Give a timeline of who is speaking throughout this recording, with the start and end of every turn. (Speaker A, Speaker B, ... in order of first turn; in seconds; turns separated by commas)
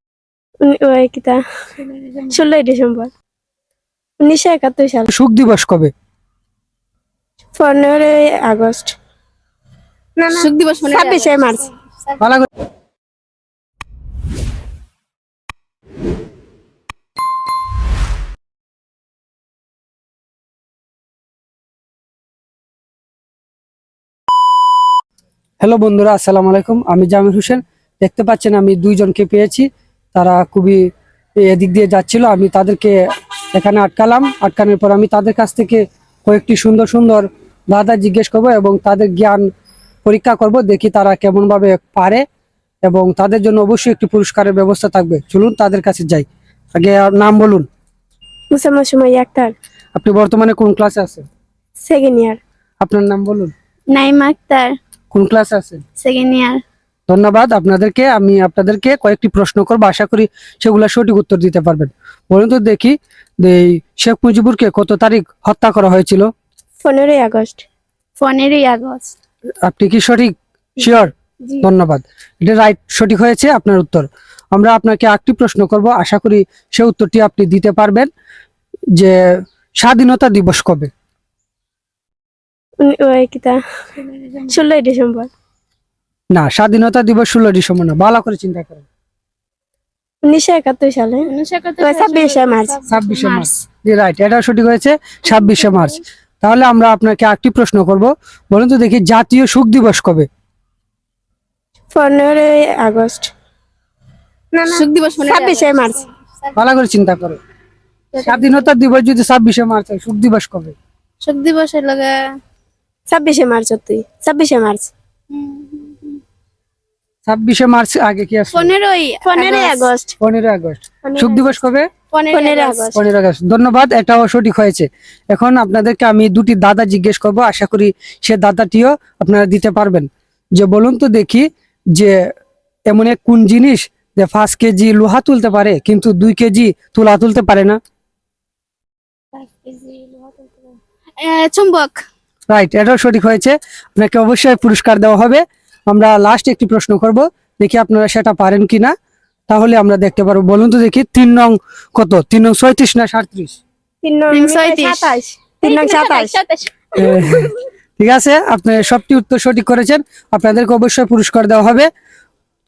Speaker A: 0.6-1.4, Speaker B: 1.8-2.4, Speaker A: 2.3-3.1, Speaker A: 4.2-5.1, Speaker C: 5.1-5.9, Speaker A: 7.5-8.9, Speaker A: 10.2-11.7, Speaker B: 10.3-12.2, Speaker C: 12.2-12.5, Speaker C: 25.6-30.8, Speaker C: 31.4-33.0, Speaker C: 33.5-39.4, Speaker C: 40.0-42.2, Speaker C: 42.8-47.7, Speaker A: 48.5-49.5, Speaker C: 50.0-51.2, Speaker A: 51.8-52.4, Speaker C: 52.8-53.5, Speaker B: 53.9-54.7, Speaker C: 55.1-55.8, Speaker B: 56.0-56.6, Speaker C: 57.1-66.3, Speaker A: 66.8-67.7, Speaker B: 68.2-69.1, Speaker C: 69.6-78.1, Speaker A: 70.8-71.7, Speaker C: 79.0-80.9, Speaker A: 82.8-83.6, Speaker B: 84.0-84.5, Speaker A: 84.5-85.3, Speaker C: 86.3-88.8, Speaker A: 90.2-92.8, Speaker B: 91.3-93.5, Speaker C: 92.9-100.3, Speaker B: 95.3-95.9, Speaker A: 101.9-103.3, Speaker A: 104.5-106.0, Speaker B: 104.7-106.0, Speaker C: 106.5-107.4, Speaker B: 108.1-108.7, Speaker C: 108.2-110.8, Speaker B: 111.2-112.3, Speaker A: 113.1-114.9, Speaker B: 115.3-116.2, Speaker C: 117.2-118.7, Speaker B: 118.5-119.9, Speaker A: 119.3-120.2, Speaker C: 120.2-121.9, Speaker A: 121.0-121.5, Speaker B: 122.1-122.9, Speaker A: 122.3-123.0, Speaker C: 122.9-132.2, Speaker C: 132.9-137.8, Speaker B: 139.3-142.0, Speaker C: 142.5-148.9, Speaker C: 149.5-153.6, Speaker A: 154.0-156.4, Speaker B: 154.3-157.4, Speaker C: 156.9-161.9